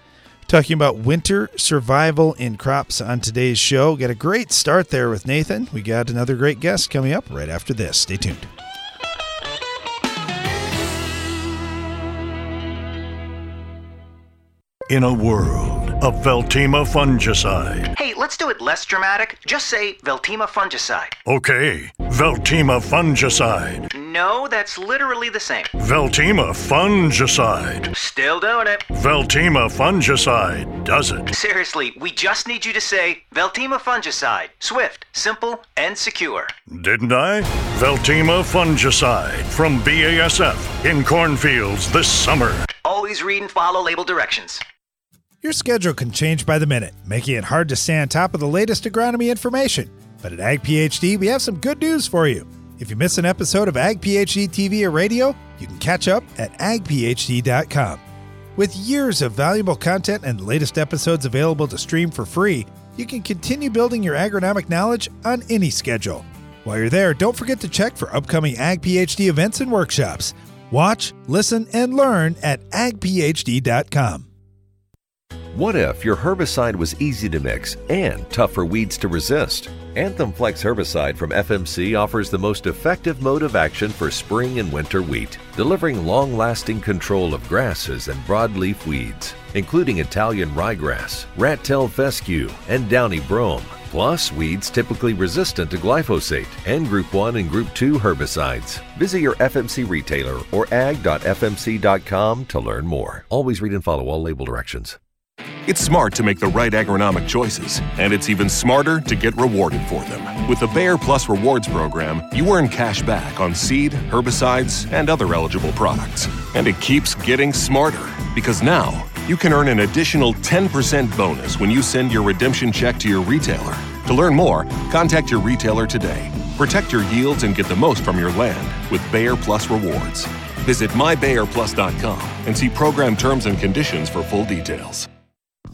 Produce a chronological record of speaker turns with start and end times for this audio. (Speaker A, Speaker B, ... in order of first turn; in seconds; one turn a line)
Speaker A: 0.5-8.5
Speaker B: 14.9-17.9
Speaker C: 17.9-21.2
Speaker B: 21.2-23.9
Speaker C: 23.9-25.7
Speaker B: 25.8-27.9
Speaker C: 27.9-28.9
Speaker B: 28.9-31.3
Speaker C: 31.3-36.5
Speaker B: 36.7-42.7
Speaker C: 42.8-44.6
Speaker A: 45.4-58.0
Speaker A: 58.6-74.3
Speaker D: 75.5-105.0
Speaker E: 105.7-135.1